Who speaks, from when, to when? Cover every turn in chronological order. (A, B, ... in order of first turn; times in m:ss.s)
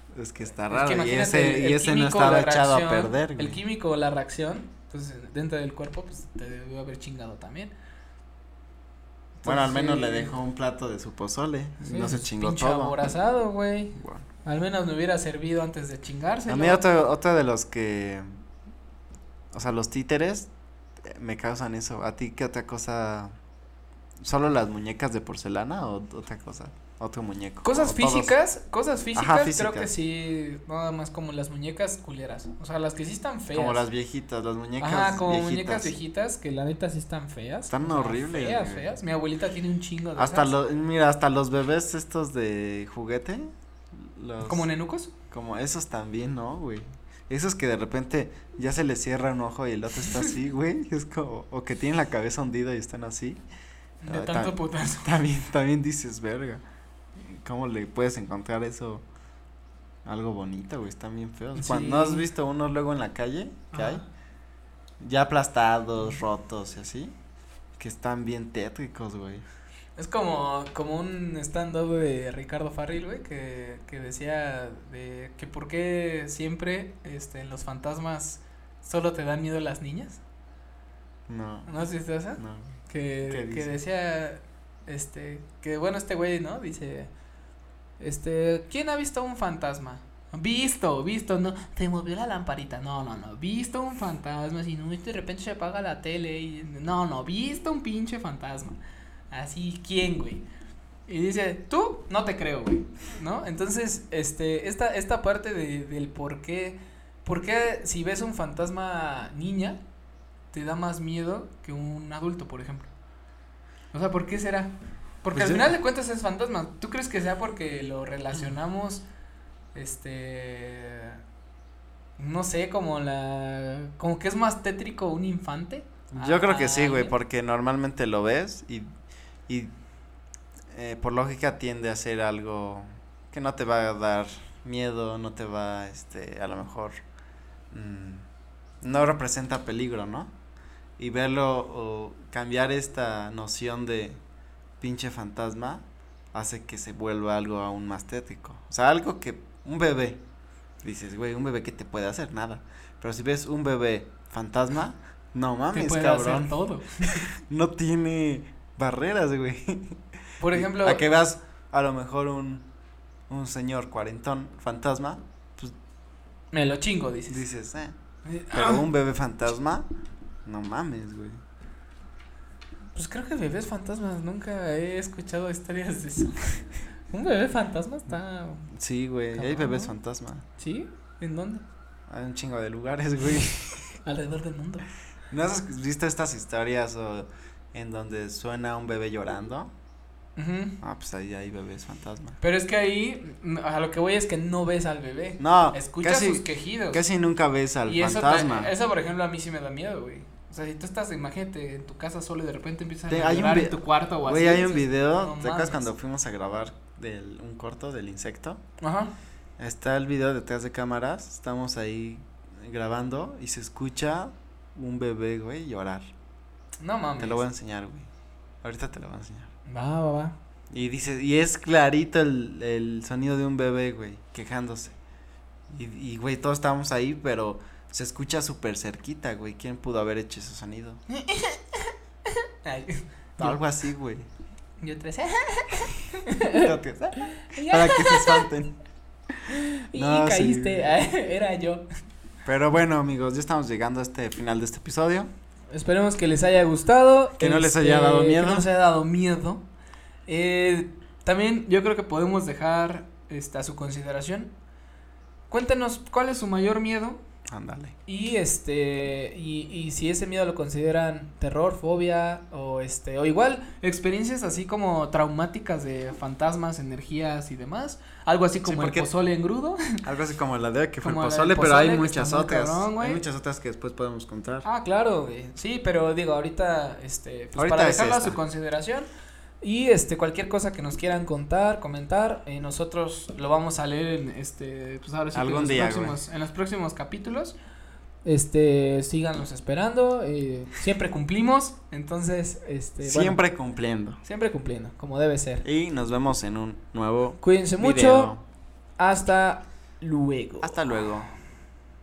0:00.1-0:03.6 A
0:00.7-0:07.7 B
0:09.4-0:10.4 B
0:09.4-0:12.9 A
0:11.8-0:16.8 B
0:14.0-0:14.2 A
0:16.5-0:18.3 A
0:19.5-0:20.5 A
0:21.0-0:23.3 A
0:24.2-0:28.3 A
0:27.6-0:33.8 B
0:29.1-0:29.9 A
0:33.5-0:35.9 A
0:34.8-0:40.5 B
0:37.7-0:38.9 A
0:40.2-0:44.7 A
0:44.4-0:45.1 B
0:45.3-0:53.4 A
0:54.0-0:55.1 B
0:54.1-0:56.6 A
0:57.2-0:59.0 A
1:00.0-1:04.0 A
1:01.5-1:02.2 B
1:03.7-1:04.0 B
1:05.0-1:07.1 A
1:07.8-1:09.4 A
1:10.0-1:20.2 B
1:21.3-1:21.7 A
1:21.7-1:27.1 B
1:22.4-1:22.7 A
1:23.3-1:23.7 A
1:28.0-1:38.8 B
1:39.3-1:40.4 B
1:41.1-1:49.8 B
1:50.5-1:52.9 B
1:53.9-1:54.7 B
1:55.2-1:59.0 B
1:55.3-1:55.7 A
1:59.7-2:01.2 B
2:02.2-2:07.2 B
2:06.1-2:08.8 A
2:10.7-2:16.9 A
2:17.7-2:18.2 A
2:18.8-2:20.3 A
2:21.0-2:24.2 A
2:24.8-2:30.2 A
2:30.8-2:42.6 A
2:35.7-2:37.2 B
2:40.4-2:41.0 B
2:43.3-2:45.7 A
2:46.5-2:47.4 B
2:47.3-2:47.9 A
2:48.2-2:48.8 B
2:48.5-2:49.8 A
2:50.4-2:51.4 A
2:52.9-2:58.7 B
2:58.7-3:00.4 A
2:59.3-2:59.9 B
3:00.6-3:01.6 B
3:02.1-3:03.9 A
3:04.0-3:04.9 B
3:05.3-3:09.7 A
3:10.4-3:10.8 B
3:10.8-3:12.4 A
3:12.4-3:17.0 B
3:15.4-3:18.7 A
3:17.9-3:25.8 B
3:23.1-3:28.6 A
3:28.8-3:29.1 B
3:29.6-3:36.1 A
3:36.8-3:37.4 B
3:37.2-3:38.1 A
3:38.6-3:39.5 A
3:39.7-3:40.4 B
3:40.7-3:44.9 A
3:45.7-3:51.0 A
3:51.1-3:53.6 B
3:53.4-3:54.2 A
3:54.8-3:58.5 B
3:56.3-3:58.7 A
3:59.3-4:00.9 A
3:59.5-4:01.8 B
4:02.4-4:05.3 A
4:05.7-4:09.6 B
4:07.4-4:08.6 A
4:10.3-4:14.5 B
4:15.5-4:17.2 B
4:17.5-4:18.0 A
4:18.1-4:30.0 B
4:28.6-4:29.1 A
4:30.0-4:34.6 A
4:31.0-4:33.2 B
4:34.6-4:39.1 B
4:37.6-4:38.4 A
4:39.6-4:47.6 B
4:45.3-4:46.2 A
4:48.2-4:53.4 B
4:53.0-4:54.2 A
4:54.2-4:55.6 B
4:55.6-4:58.4 A
4:57.4-4:58.3 B
4:59.0-5:00.8 B
5:00.6-5:01.3 A